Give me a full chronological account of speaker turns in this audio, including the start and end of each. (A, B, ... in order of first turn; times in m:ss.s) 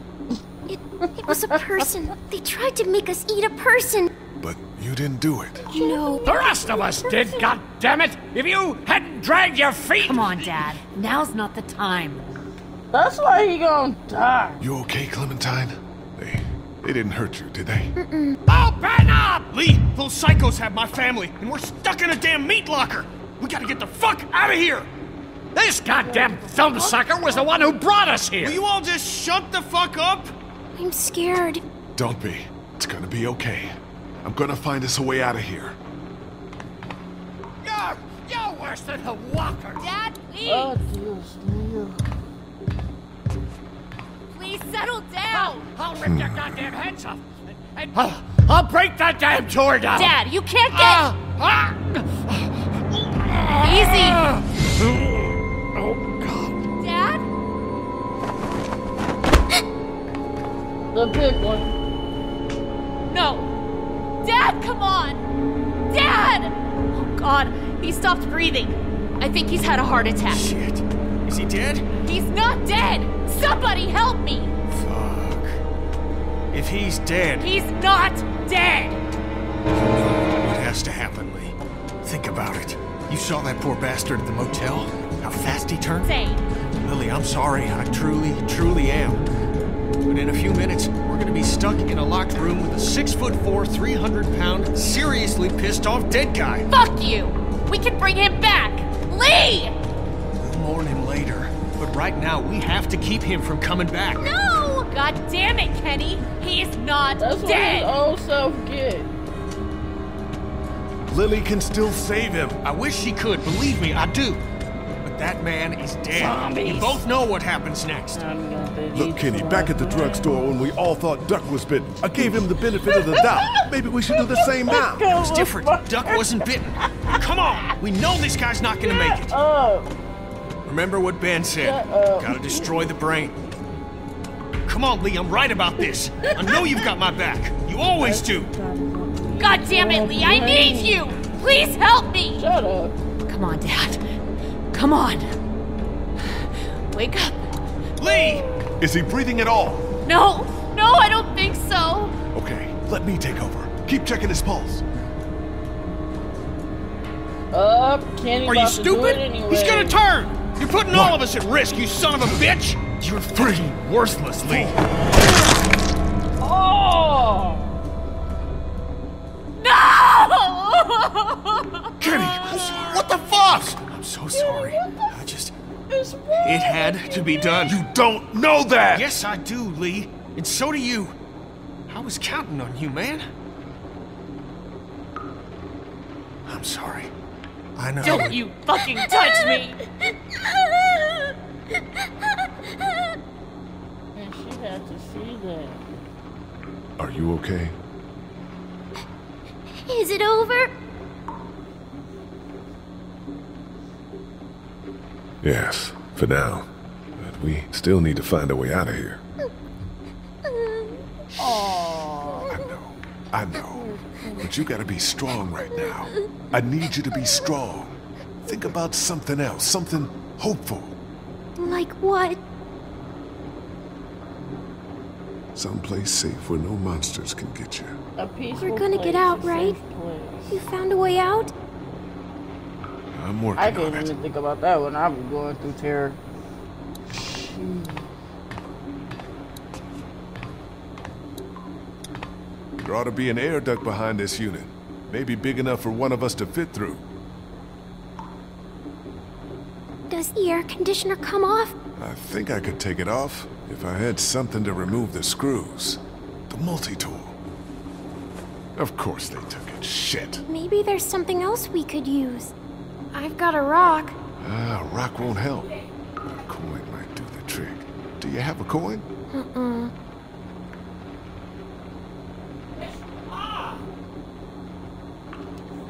0:00.7-0:04.1 A
0:04.4-0:05.7 B
0:05.7-0:06.5 A
0:05.7-0:07.4 C
0:06.2-0:10.4 D
0:10.0-0:12.3 E
0:12.9-0:14.6 C
0:14.6-0:17.9 B
0:18.0-0:18.4 A
0:18.5-0:24.9 F
0:18.7-0:19.3 D
0:25.6-0:28.6 D
0:26.0-0:27.9 C
0:28.3-0:30.3 F
0:30.8-0:31.6 A
0:32.0-0:35.8 B
0:37.7-0:39.8 D
0:39.8-0:40.7 E
0:40.5-0:42.1 C
0:44.3-0:45.7 E
0:45.3-0:47.2 D
0:46.0-0:46.7 B
0:47.8-0:50.1 D
0:49.9-0:51.1 E
0:51.0-0:51.4 D
0:53.6-0:54.3 E
0:56.8-0:57.2 E
1:00.9-1:01.8 C
1:03.1-1:03.5 E
1:04.2-1:05.2 E
1:05.9-1:10.4 E
1:10.3-1:11.8 F
1:12.0-1:14.5 E
1:14.7-1:15.6 F
1:16.5-1:17.5 F
1:17.4-1:19.0 E
1:19.8-1:26.1 F
1:26.0-1:26.4 E
1:26.8-1:29.3 F
1:30.1-1:36.7 F
1:36.7-1:39.8 E
1:40.4-1:44.2 F
1:44.2-1:47.9 E
1:47.2-1:49.1 C
1:51.1-1:52.6 B
1:52.6-1:54.4 F
1:55.0-1:58.2 F
1:56.1-1:57.0 C
1:58.1-2:00.4 C
1:58.9-2:05.1 B
2:02.2-2:07.2 C
2:05.2-2:09.4 F
2:08.8-2:09.9 C
2:10.7-2:13.4 F
2:11.6-2:12.8 C
2:14.7-2:18.5 F
2:16.2-2:16.9 C
2:18.0-2:21.2 C
2:19.4-2:22.4 E
2:22.4-2:23.0 C
2:23.3-2:24.0 E
2:24.7-2:25.3 E
2:26.9-2:27.4 E
2:28.0-2:28.4 F
2:28.0-2:28.6 C
2:28.8-2:29.8 B
2:30.0-2:32.2 E
2:32.3-2:34.8 B
2:37.5-2:40.0 C
2:38.5-2:44.8 F
2:40.9-2:41.2 B
2:42.2-2:42.5 B
2:43.3-2:43.7 B
2:46.4-2:47.8 C
2:49.6-2:51.8 E
2:52.0-2:53.7 B
2:52.5-2:55.5 F
2:52.5-2:52.9 C
2:54.3-2:55.1 C
2:55.9-2:57.8 C
2:56.4-2:57.8 F
2:57.6-2:59.1 B
2:58.9-3:01.2 F
3:01.9-3:03.3 F
3:06.5-3:07.1 F
3:07.8-3:08.4 F
3:08.0-3:09.8 E
3:14.2-3:15.8 C
3:17.0-3:17.7 B
3:19.8-3:20.7 A
3:25.4-3:29.2 B
3:30.5-3:30.9 A
3:31.4-3:32.8 C
3:32.5-3:41.0 B
3:33.4-3:34.7 C
3:41.6-3:42.4 A
3:45.6-3:48.0 B
3:48.2-3:50.6 C
3:48.6-3:49.8 A
3:50.5-3:51.5 A
3:53.1-3:54.1 B
3:53.6-3:56.2 C
3:57.1-3:58.1 C
4:02.8-4:07.0 B
4:10.1-4:11.8 A
4:12.0-4:17.4 B
4:18.8-4:20.4 B
4:20.5-4:22.5 A
4:23.1-4:24.2 A
4:24.4-4:25.7 B
4:26.3-4:29.0 B
4:29.3-4:29.9 A